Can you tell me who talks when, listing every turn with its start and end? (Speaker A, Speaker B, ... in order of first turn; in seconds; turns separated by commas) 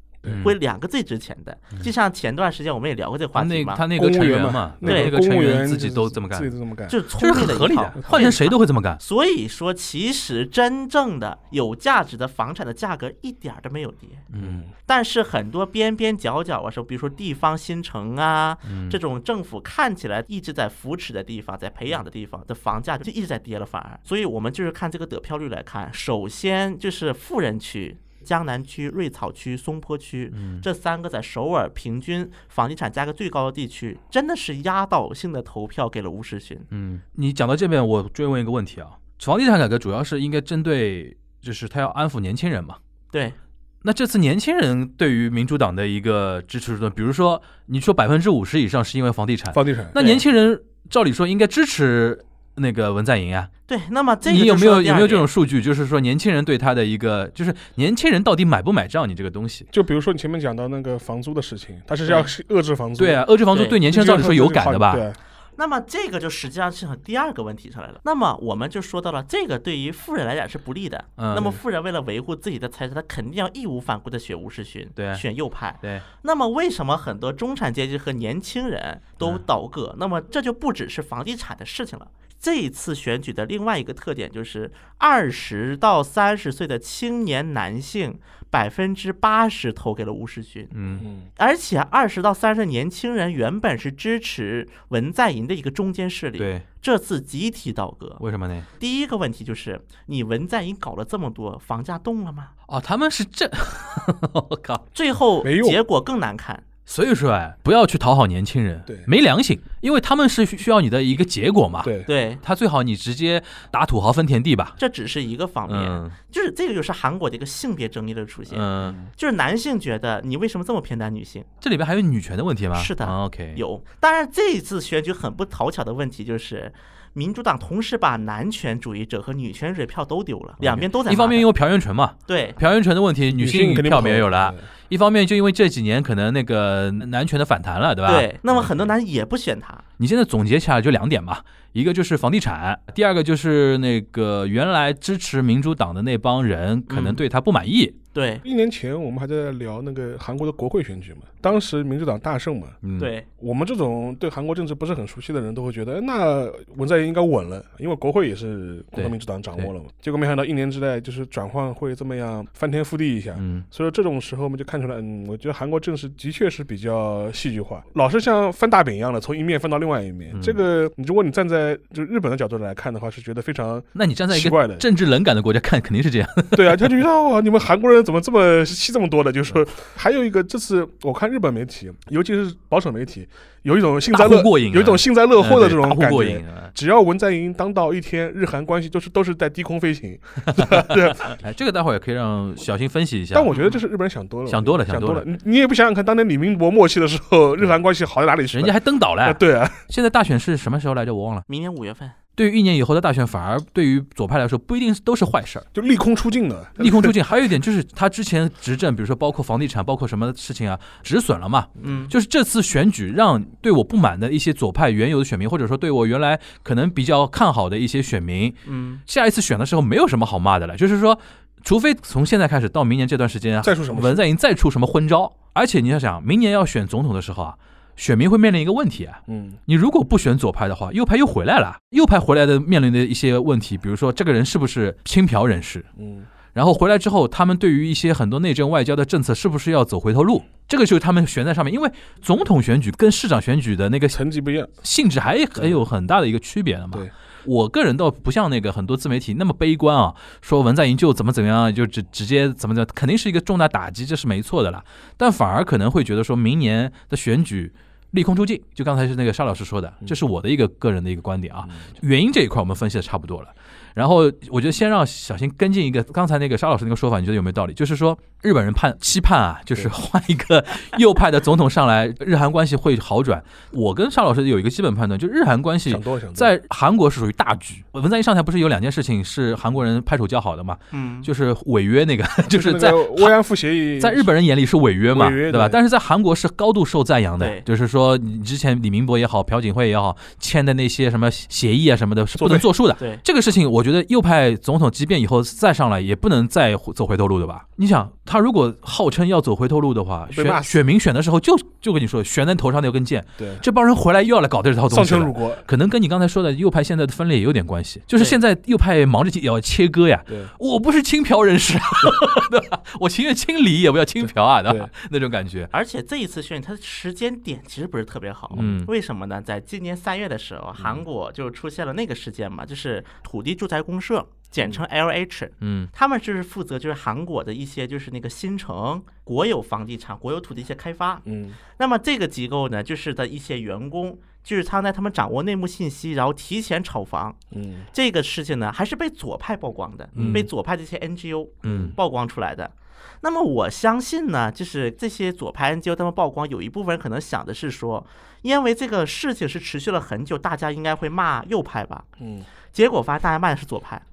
Speaker A: 0.2-0.5, Speaker B: 0.2-0.6, Speaker C: 0.4-3.8, Speaker B: 3.3-6.5, Speaker A: 3.9-7.0, Speaker C: 4.8-5.1, Speaker C: 6.9-14.2, Speaker B: 7.2-9.0, Speaker A: 8.0-8.3, Speaker B: 14.3-14.6, Speaker A: 14.4-14.7, Speaker C: 14.8-36.7, Speaker B: 18.6-19.0, Speaker B: 30.3-30.6, Speaker B: 36.7-42.8, Speaker C: 43.1-43.4, Speaker B: 43.8-53.5, Speaker A: 49.5-50.0, Speaker C: 50.0-50.2, Speaker C: 53.7-55.3, Speaker B: 54.2-59.7, Speaker A: 59.7-63.2, Speaker B: 63.0-65.0, Speaker C: 63.5-63.8, Speaker A: 63.8-65.2, Speaker C: 65.6-90.7, Speaker B: 71.2-71.6, Speaker B: 75.0-75.2, Speaker B: 90.7-91.0, Speaker A: 91.0-91.3, Speaker C: 91.4-98.2, Speaker B: 96.4-96.6, Speaker B: 98.2-98.7, Speaker C: 98.8-102.5, Speaker B: 102.7-104.8, Speaker C: 104.9-106.6, Speaker A: 105.4-105.8, Speaker B: 106.9-114.8, Speaker A: 111.8-112.1, Speaker C: 112.1-112.4, Speaker C: 114.8-121.5, Speaker B: 115.7-116.2, Speaker B: 118.5-119.0, Speaker A: 118.8-119.1, Speaker B: 121.6-123.6, Speaker C: 122.7-131.4, Speaker B: 130.6-138.7, Speaker C: 132.3-132.6, Speaker A: 133.3-134.7, Speaker C: 138.1-139.8, Speaker B: 140.0-147.9, Speaker C: 146.9-147.2, Speaker C: 148.1-148.4, Speaker A: 148.4-152.8, Speaker B: 152.8-153.1, Speaker C: 153.0-153.3, Speaker A: 153.4-174.8, Speaker B: 158.9-159.7, Speaker B: 163.3-163.7, Speaker B: 170.3-170.6, Speaker B: 173.9-176.9, Speaker A: 176.5-191.4, Speaker B: 184.1-186.7, Speaker B: 190.5-193.6, Speaker A: 193.3-199.8, Speaker C: 193.5-193.8, Speaker B: 194.5-195.2, Speaker B: 198.5-201.4, Speaker C: 201.5-202.2, Speaker B: 202.3-205.7, Speaker A: 205.7-207.2, Speaker B: 206.8-235.9, Speaker C: 211.8-212.1, Speaker C: 218.6-219.0, Speaker A: 223.6-224.2, Speaker A: 229.3-229.6, Speaker A: 236.0-236.3, Speaker B: 236.5-244.2, Speaker A: 244.1-244.7, Speaker B: 244.8-283.3, Speaker A: 245.6-245.8, Speaker A: 275.9-276.5, Speaker C: 280.9-281.3, Speaker A: 282.5-284.3, Speaker B: 284.0-315.7, Speaker A: 285.1-285.8, Speaker C: 287.4-287.6, Speaker A: 292.4-292.7, Speaker A: 300.3-300.8, Speaker A: 303.4-303.6, Speaker A: 304.9-305.6, Speaker A: 314.6-314.9, Speaker C: 315.7-331.2, Speaker B: 318.5-318.9, Speaker B: 325.6-325.9, Speaker A: 331.2-331.6, Speaker C: 331.8-337.4, Speaker A: 337.5-337.9, Speaker C: 337.9-352.1, Speaker B: 340.1-340.5, Speaker A: 340.1-340.5, Speaker B: 341.6-341.9, Speaker A: 352.2-352.5, Speaker C: 352.7-354.0